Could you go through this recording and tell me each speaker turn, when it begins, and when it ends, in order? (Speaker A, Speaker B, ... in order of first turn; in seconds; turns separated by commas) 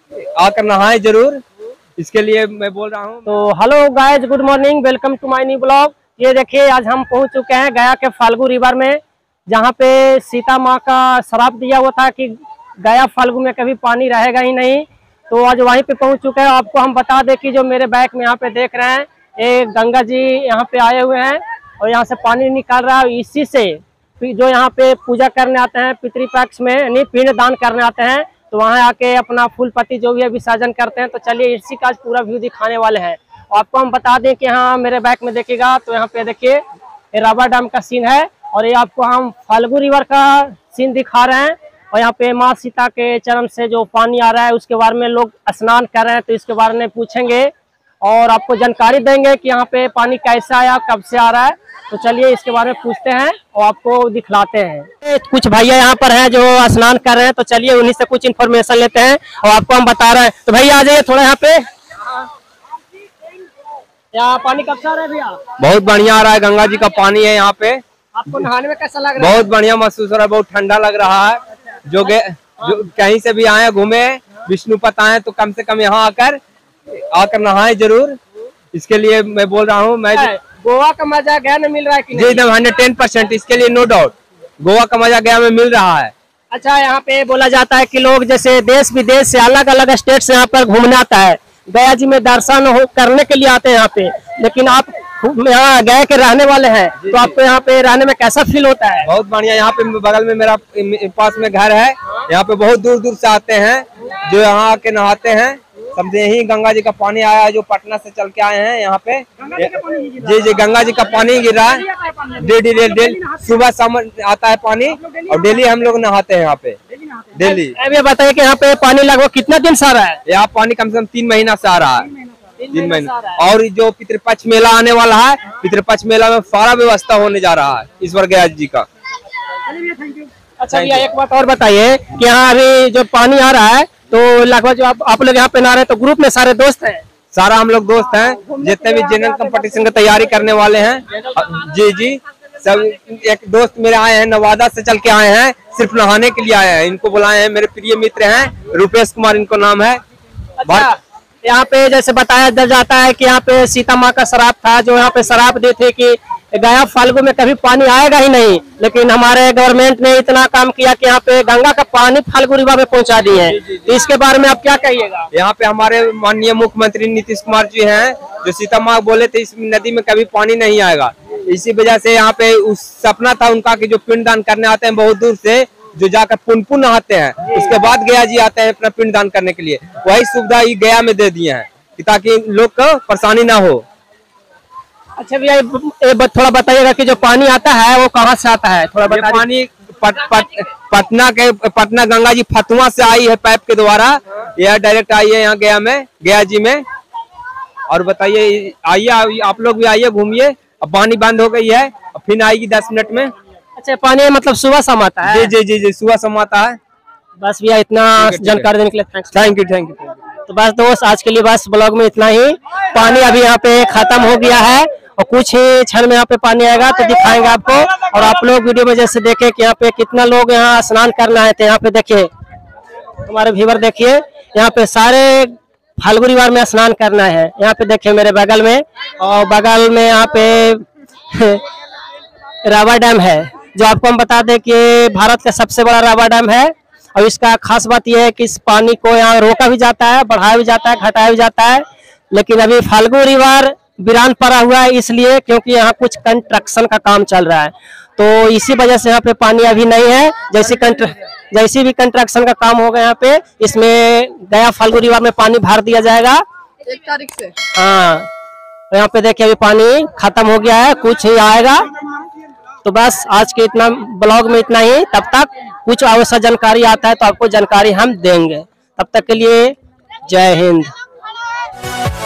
Speaker A: 0.2-1.4, Speaker A: 2.0-3.3, Speaker B: 3.3-36.6, Speaker B: 37.1-47.5, Speaker B: 48.0-61.6, Speaker B: 64.1-65.4, Speaker A: 65.6-67.8, Speaker B: 68.2-69.5, Speaker A: 69.2-76.4, Speaker A: 77.1-78.2, Speaker A: 78.7-80.3, Speaker B: 80.1-82.5, Speaker A: 82.1-86.1, Speaker B: 86.5-99.1, Speaker A: 97.0-97.3, Speaker A: 99.0-116.8, Speaker A: 117.3-117.8, Speaker B: 117.4-120.2, Speaker A: 120.3-122.1, Speaker B: 122.6-123.4, Speaker A: 122.7-128.9, Speaker B: 129.7-137.0, Speaker A: 130.7-131.1, Speaker A: 137.3-150.0, Speaker B: 150.6-165.3, Speaker A: 150.7-150.9, Speaker A: 165.3-183.8, Speaker B: 185.2-189.4, Speaker A: 189.1-196.8, Speaker A: 197.9-203.3, Speaker B: 203.8-205.5, Speaker A: 205.2-206.8, Speaker B: 207.4-209.4, Speaker A: 208.2-208.7, Speaker A: 209.3-210.1, Speaker B: 210.5-222.3, Speaker B: 223.3-231.6, Speaker B: 232.7-256.4, Speaker B: 257.7-258.3, Speaker B: 258.9-261.9, Speaker B: 262.9-269.8, Speaker B: 270.3-270.9